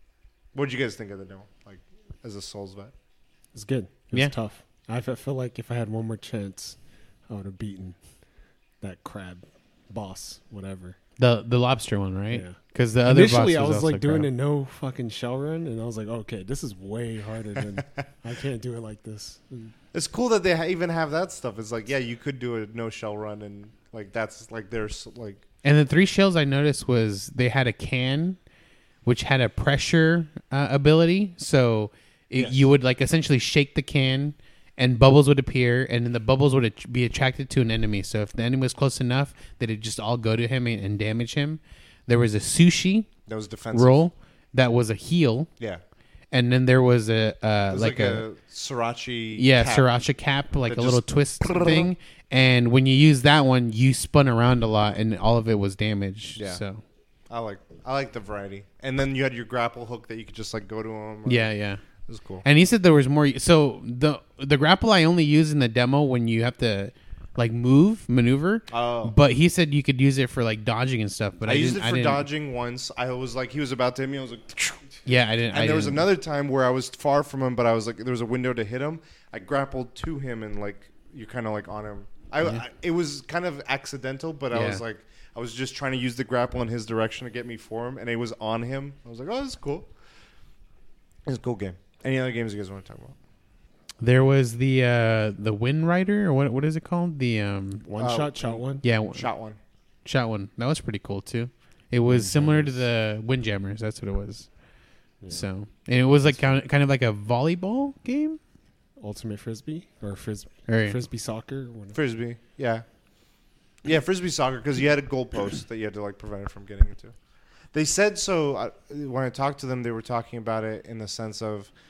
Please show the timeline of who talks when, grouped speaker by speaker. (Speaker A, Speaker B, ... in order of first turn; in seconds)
Speaker A: 0.5-2.9, 19.9-25.4, 43.3-44.0, 47.7-49.9, 50.6-51.9, 56.4-56.6, 57.3-61.5, 62.1-62.4, 68.7-69.1, 71.4-74.9, 75.5-89.9, 91.2-93.2, 98.0-99.6, 111.9-112.8, 113.8-117.1, 117.7-121.7
Speaker B: 3.5-8.0, 8.8-11.0, 12.3-19.7, 97.8-98.8, 102.1-102.8, 105.2-105.5, 106.2-106.5, 109.0-112.0
Speaker C: 11.2-14.3, 25.6-28.4, 29.0-43.1, 43.7-45.5, 46.3-48.2, 49.4-56.8, 61.2-61.8, 62.4-72.2, 75.0-76.0, 84.5-84.8, 94.0-97.8, 98.8-99.3, 100.0-104.6, 105.3-108.4, 110.7-111.0